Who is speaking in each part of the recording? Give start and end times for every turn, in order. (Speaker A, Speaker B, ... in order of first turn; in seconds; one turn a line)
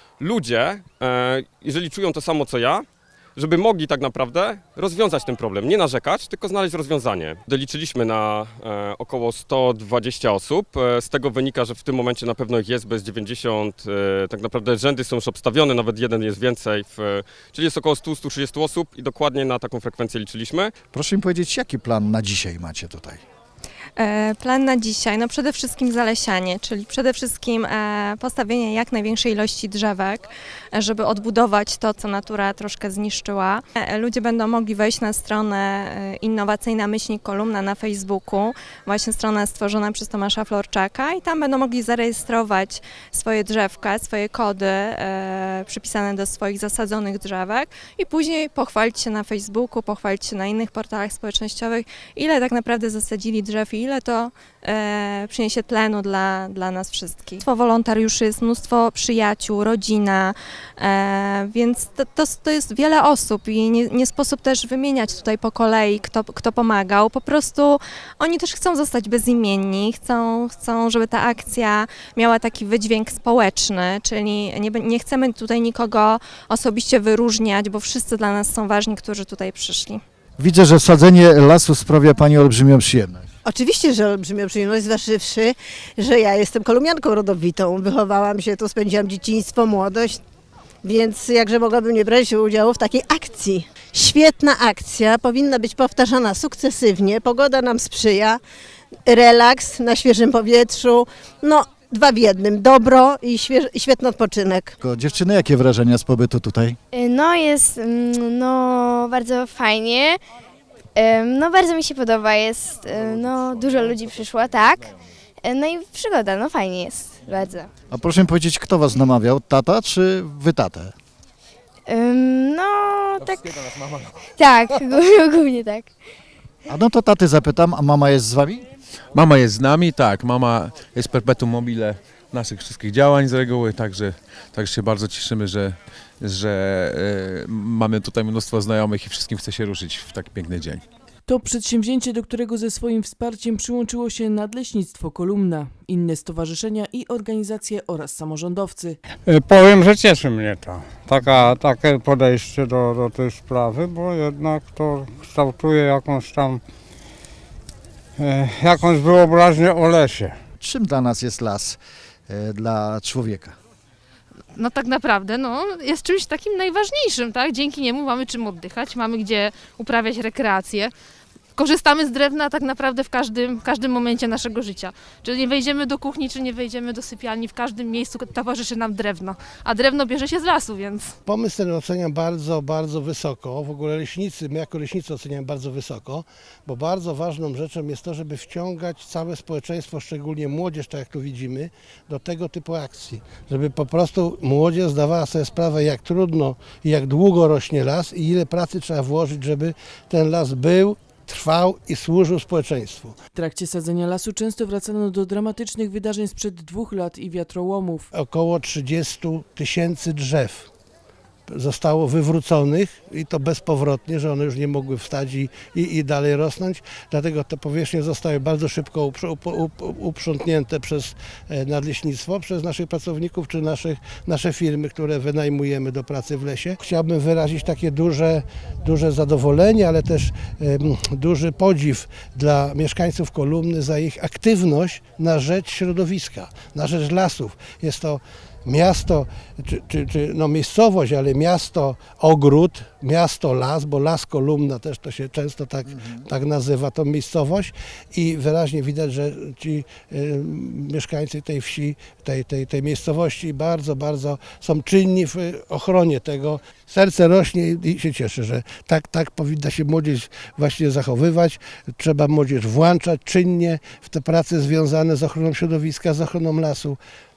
Speaker A: 0.2-20.7
Speaker B: 20.9-23.2
Speaker C: 24.0-80.0
Speaker B: 80.4-83.3
Speaker D: 83.4-90.2
Speaker D: 90.8-98.4
Speaker D: 99.0-104.7
Speaker B: 104.8-106.8
Speaker E: 106.9-110.2
Speaker E: 111.0-117.7
Speaker B: 117.9-120.9
Speaker E: 121.9-123.6
Speaker E: 124.4-125.9
Speaker B: 126.7-128.6
Speaker F: 129.1-140.8
Speaker G: 141.2-149.0
Speaker H: 149.3-156.6
Speaker H: 158.2-160.3
Speaker B: 160.6-163.5
Speaker I: 164.5-170.9
Speaker I: 171.6-181.1
Speaker J: 181.2-203.1
Speaker G: 203.3-208.1
Speaker J: 208.1-210.7
Speaker J: 211.5-267.0
Speaker B: 245.8-246.2